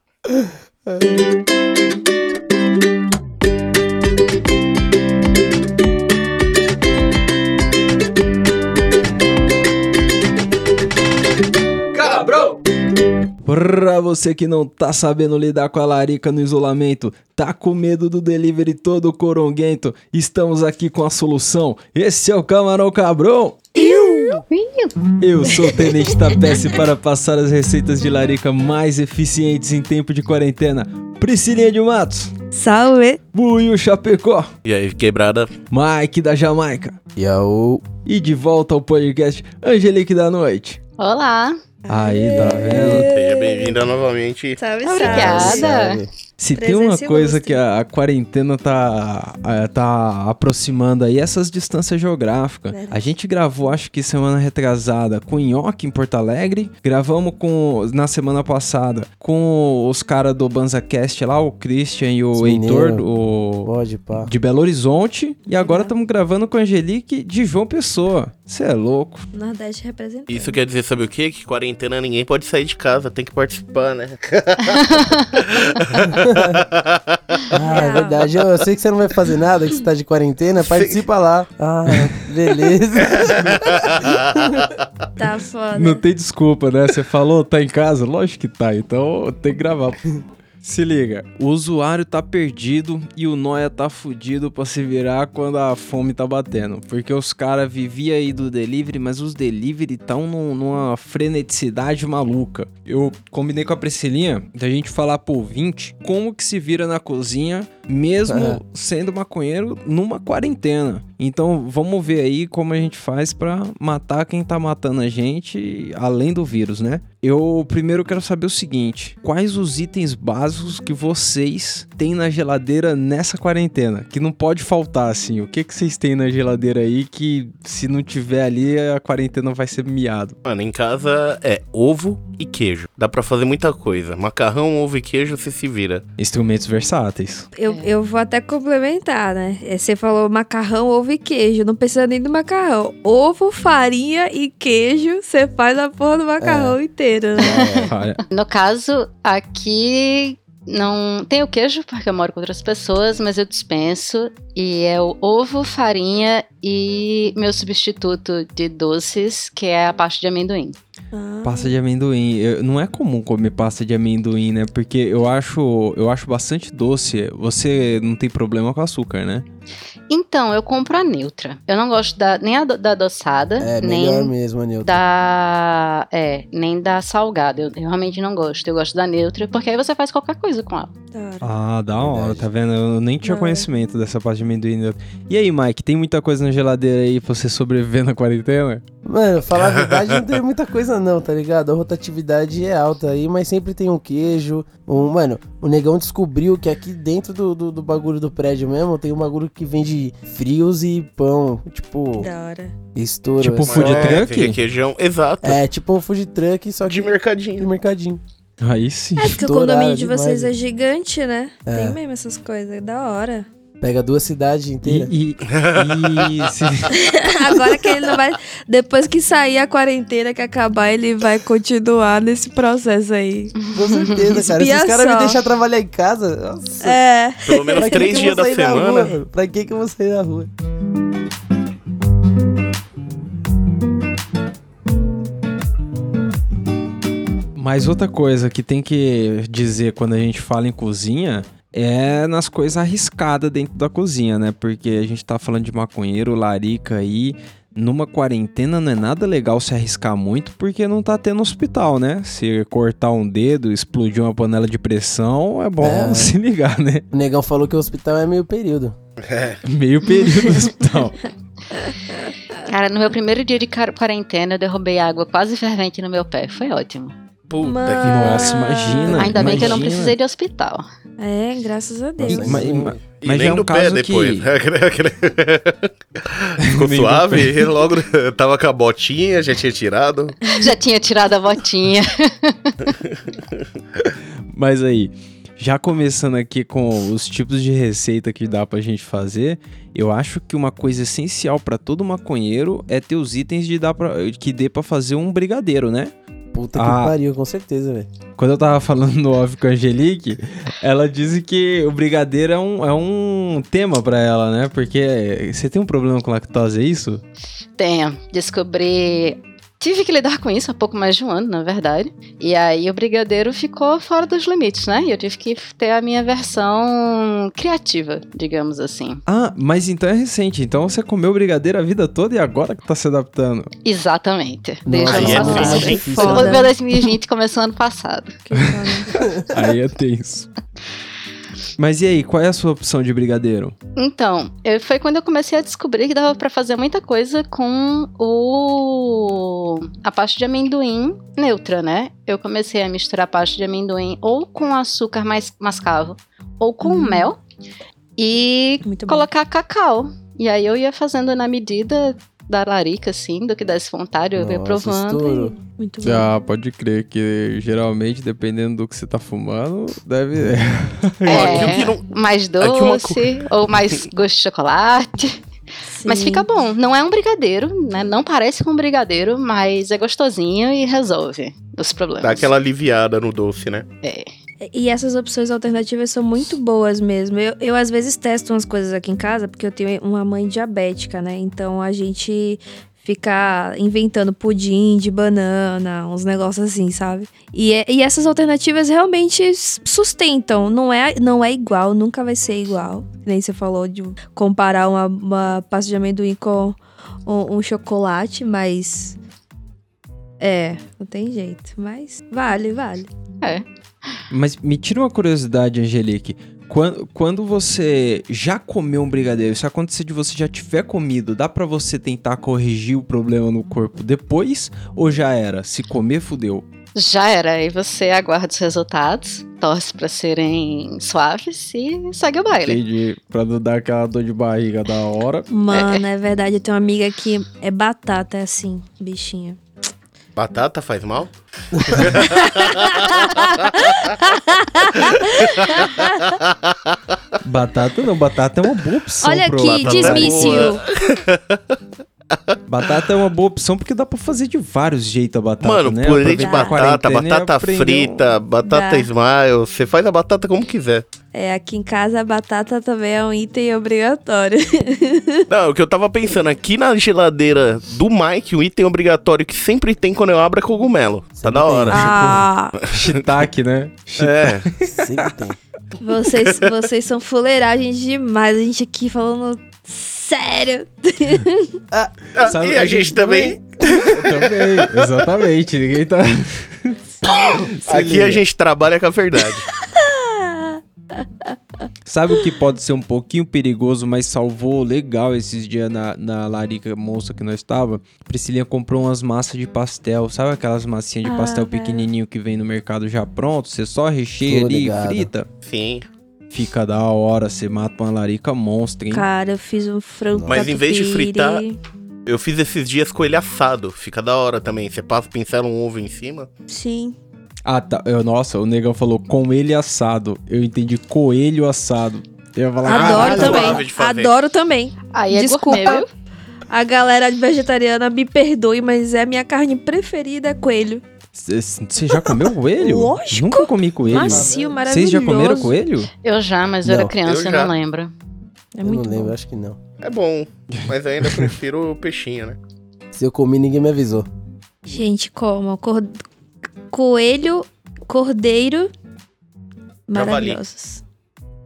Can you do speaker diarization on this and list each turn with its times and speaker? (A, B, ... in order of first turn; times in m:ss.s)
0:00.3-0:01.0 A
0:11.9-0:12.6 B
0:13.4-0:23.8 B
0:23.8-0:24.9 C
0:23.8-0:24.3 A
0:25.2-0:32.4 B
0:32.5-0:33.2 D
0:33.3-0:34.5 B
0:34.6-0:35.5 E
0:35.7-0:37.0 B
0:37.2-0:37.8 A
0:38.0-0:40.8 B
0:41.0-0:41.6 C
0:41.8-0:43.8 D
0:41.9-0:43.1 B
0:42.4-0:42.9 A
0:42.8-0:44.6 E
0:44.6-0:45.7 D
0:44.8-0:46.0 C
0:45.0-0:46.1 A
0:46.4-1:09.3 B
0:46.6-0:47.6 D
0:52.7-0:53.1 D
1:02.4-1:03.0 A
1:03.6-1:04.3 A
1:05.5-1:05.9 D
1:09.3-1:10.6 D
1:10.3-1:17.5 E
1:14.7-1:15.3 C
1:16.1-1:16.6 A
1:17.5-1:24.6 A
1:17.6-1:18.3 D
1:20.6-1:21.0 E
1:23.1-1:24.9 E
1:25.2-1:26.0 D
1:25.8-1:30.0 B
1:30.6-2:10.4 B
1:48.3-1:48.6 A
2:10.4-2:16.0 E
2:16.2-2:17.5 B
2:17.6-2:27.6 D
2:17.7-2:17.9 C
2:26.4-2:26.8 A
2:27.4-2:27.9 A
2:27.4-2:40.8 C
2:27.9-2:28.2 B
2:41.1-2:41.7 D
2:41.4-2:49.5 B
2:50.1-2:54.3 C
2:53.6-2:55.0 A
2:54.8-3:00.9 C
3:01.1-3:01.5 D
3:01.4-3:08.8 B
3:02.0-3:02.5 A
3:03.2-3:03.7 D
3:09.0-3:22.3 A
3:09.6-3:10.4 E
3:22.2-3:22.7 D
3:23.0-3:24.2 A
3:23.4-3:24.6 B
3:23.6-3:25.6 E
3:25.4-3:28.2 A
3:26.8-3:27.7 E
3:28.6-3:29.4 B
3:29.2-3:33.5 D
3:29.4-3:30.5 A
3:31.7-3:32.0 A
3:33.8-3:35.1 A
3:34.8-3:37.0 B
3:35.5-3:36.5 E
3:36.9-3:43.6 D
3:43.6-3:44.2 C
3:43.7-3:47.0 A
3:44.2-3:45.4 D
3:46.8-3:48.4 D
3:47.5-3:49.2 E
3:47.8-3:50.5 A
3:57.6-4:17.0 B
4:15.8-4:16.4 A
4:17.1-4:18.9 A
4:19.2-4:19.6 E
4:19.6-4:21.2 B
4:22.6-4:27.1 C
4:27.5-4:28.6 E
4:27.6-4:29.8 D
4:28.0-4:30.2 B
4:29.1-4:30.8 C
4:31.2-4:32.8 D
4:32.2-4:33.0 A
4:32.3-4:34.5 B
4:33.2-4:40.4 E
4:36.6-4:37.7 B
4:40.5-4:40.7 D
4:40.5-4:42.9 C
4:44.5-4:56.1 B
4:56.5-4:58.1 A
4:56.8-4:57.2 B
4:58.4-5:07.2 B
5:07.8-5:19.2 C
5:19.3-5:23.7 B
5:23.8-5:28.4 C
5:24.9-5:26.7 A
5:25.1-5:26.1 E
5:25.1-5:26.8 D
5:28.5-5:29.2 D
5:28.6-5:30.5 B
5:29.2-5:29.4 A
5:31.8-5:33.8 B
5:34.0-5:47.4 C
5:46.8-5:47.3 D
5:48.2-5:55.3 C
5:48.8-5:49.3 D
5:54.4-5:55.6 A
5:55.3-5:56.3 D
5:56.0-6:01.9 B
6:01.2-6:02.0 E
6:01.3-6:05.4 C
6:02.6-6:03.2 E
6:05.9-6:06.5 D
6:06.0-6:12.5 C
6:12.2-6:13.9 E
6:14.0-6:14.3 C
6:14.6-6:39.2 D
6:40.4-6:43.1 D
6:43.4-6:44.2 C
6:44.3-6:56.7 B
6:57.0-7:02.8 C
7:02.6-7:05.5 B
7:05.5-7:09.6 D
7:05.7-7:06.0 C
7:10.4-7:14.1 E
7:12.2-7:16.2 D
7:15.1-7:17.0 E
7:17.4-7:20.8 B
7:19.2-7:20.9 D
7:19.6-7:21.8 E
7:22.5-7:22.9 E
7:22.7-7:28.2 B
7:25.6-7:31.0 E
7:26.3-7:26.8 D
7:28.6-7:29.1 D
7:31.3-7:35.5 D
7:35.5-7:43.3 E
7:41.4-7:42.4 A
7:41.9-7:42.8 D
7:42.8-7:45.3 B
7:44.2-7:44.7 E
7:44.9-7:45.6 A
7:46.0-7:51.8 D
7:46.4-7:46.6 E
7:52.4-7:55.0 E
7:52.4-7:53.6 B
7:54.1-7:58.4 B
7:57.9-7:59.7 E
7:59.6-8:01.6 D
8:02.1-8:15.5 B
8:11.2-8:12.1 D
8:14.4-8:15.3 A
8:15.6-8:16.0 E
8:16.5-8:19.3 B
8:19.1-8:21.8 D
8:20.3-8:20.7 A
8:20.5-8:21.6 E
8:22.3-8:26.5 E
8:26.7-8:27.2 D
8:27.6-8:33.8 B
8:32.8-8:36.1 D
8:32.9-8:34.4 E
8:35.1-8:36.1 C
8:36.7-8:41.0 D
8:41.3-8:46.1 B
8:42.2-8:45.8 D
8:44.0-8:44.8 A
8:46.2-8:48.1 C
8:46.8-8:47.1 A
8:47.2-8:47.7 E
8:48.8-8:49.4 D
8:48.8-8:49.8 A
8:50.0-8:52.6 E
8:50.8-8:51.5 B
8:53.1-8:54.3 A
8:54.8-8:56.2 D
8:56.9-8:58.9 D
9:00.1-9:01.0 D
9:00.1-9:00.6 E